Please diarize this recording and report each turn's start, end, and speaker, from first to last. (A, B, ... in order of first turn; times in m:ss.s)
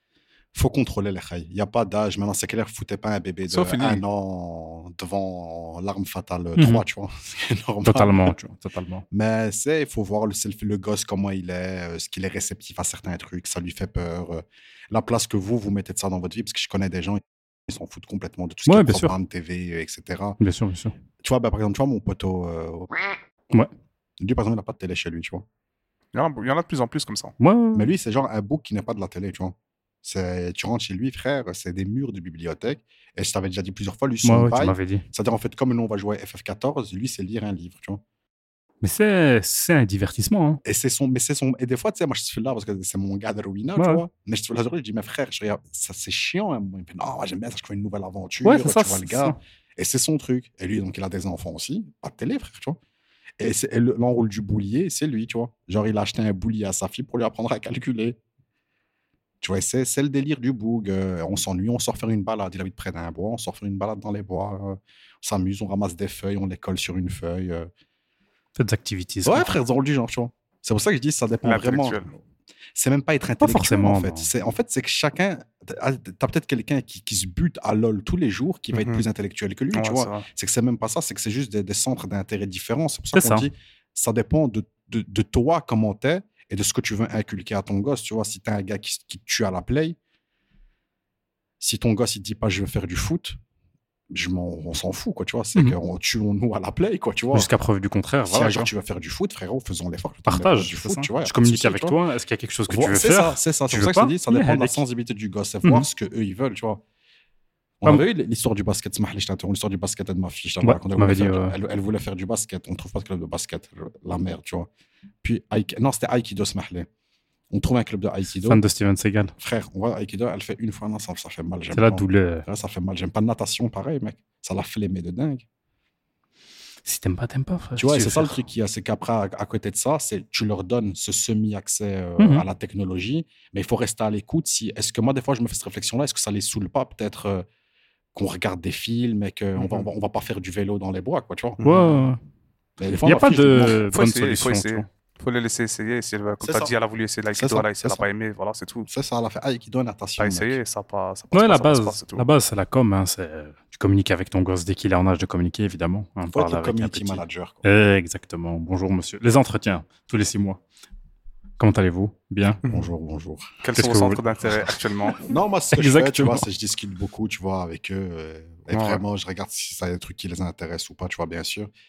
0:00.5-0:08.3 A
0:03.5-0:04.0 B
0:06.6-0:06.8 C
0:07.8-0:09.0 C
0:09.1-0:20.4 A
0:18.6-0:19.1 C
0:20.4-0:20.9 C
0:21.2-0:23.2 A
0:24.2-0:25.4 A
0:26.1-0:27.3 B
0:27.4-0:27.9 C
0:27.7-0:38.0 A
0:34.2-0:35.0 C
0:38.8-0:40.6 C
0:40.6-0:52.8 A
0:43.8-0:44.0 C
0:48.4-0:49.4 C
0:53.4-0:58.2 A
0:59.4-1:07.7 A
1:08.6-1:09.5 C
1:09.2-1:12.2 A
1:11.4-1:12.1 B
1:12.7-1:30.0 A
1:13.4-1:14.3 C
1:18.7-1:19.0 B
1:19.7-1:20.2 B
1:23.1-1:23.5 C
1:31.6-1:33.4 A
1:34.1-1:37.5 A
1:37.3-1:38.7 C
1:38.3-1:42.0 A
1:40.3-1:44.8 C
1:42.7-1:46.8 A
1:47.8-1:54.7 A
1:50.6-1:51.6 C
1:55.2-1:56.9 A
1:57.5-1:58.6 A
1:58.4-1:59.3 C
1:59.4-2:05.4 A
2:01.7-2:02.4 C
2:06.8-2:08.4 C
2:07.8-2:17.4 A
2:12.2-2:12.4 C
2:18.1-2:21.6 A
2:19.6-2:19.9 B
2:21.6-2:22.0 B
2:21.6-2:22.2 C
2:22.8-2:23.8 A
2:22.9-2:24.9 C
2:23.9-2:28.9 B
2:26.4-2:26.7 A
2:27.3-2:28.0 A
2:28.9-2:30.6 A
2:30.2-2:32.2 B
2:31.3-2:40.6 C
2:36.3-2:37.6 A
2:41.6-2:42.6 C
2:42.6-2:43.6 A
2:43.6-2:45.2 B
2:43.7-2:44.2 C
2:44.6-2:51.7 A
2:45.7-2:46.4 C
2:48.7-2:49.0 B